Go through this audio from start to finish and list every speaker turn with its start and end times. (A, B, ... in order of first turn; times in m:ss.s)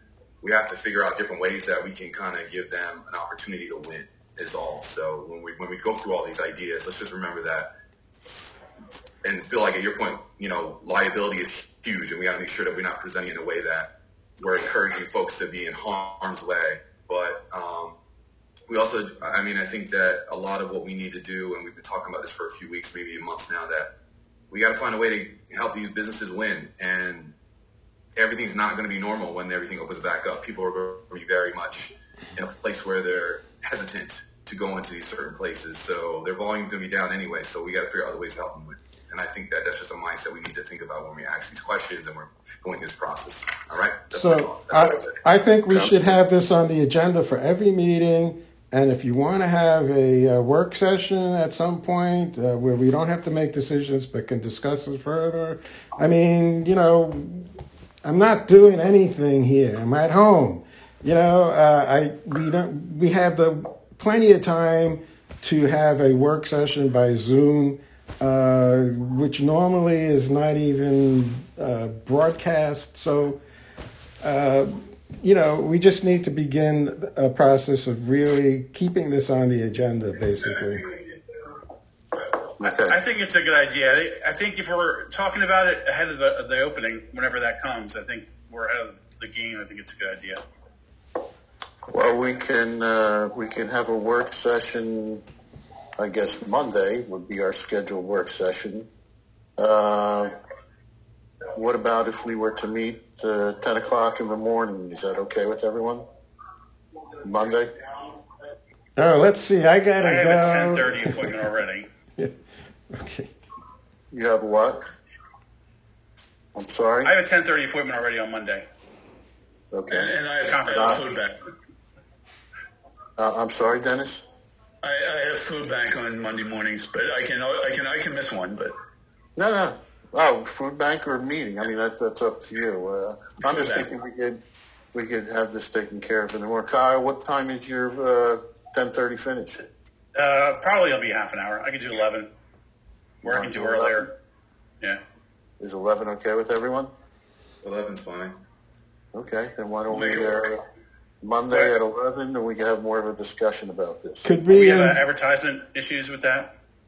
0:00.4-0:07.7 A
0:09.2-0:18.0 A
0:18.7-0:23.9 A
0:24.5-0:27.3 A
0:28.2-0:45.2 A
0:44.1-0:57.5 B
0:58.0-1:13.4 B
1:14.2-1:20.9 B
1:22.6-1:23.0 C
1:22.6-1:30.4 D
1:31.9-1:35.2 C
1:36.0-1:38.9 C
1:39.6-1:40.3 C
1:41.5-1:46.0 C
1:47.2-1:47.7 C
1:49.0-1:51.4 B
1:50.0-1:51.9 D
1:52.9-1:53.3 B
1:54.1-1:54.8 C
1:56.5-1:57.1 C
1:57.0-1:58.7 D
1:59.7-2:00.1 C
1:59.9-2:01.4 E
2:00.5-2:01.0 D
2:00.7-2:01.0 C
2:03.2-2:04.2 C
2:04.8-2:08.7 E
2:09.4-2:14.4 C
2:13.4-2:13.9 E
2:14.9-2:19.7 C
2:20.1-2:22.3 D
2:23.2-2:24.0 C
2:23.2-2:24.1 D
2:25.6-2:26.9 C
2:27.6-2:28.4 A
2:29.1-2:30.6 C
2:31.2-2:34.3 C
2:34.2-2:35.0 B
2:34.5-2:36.5 D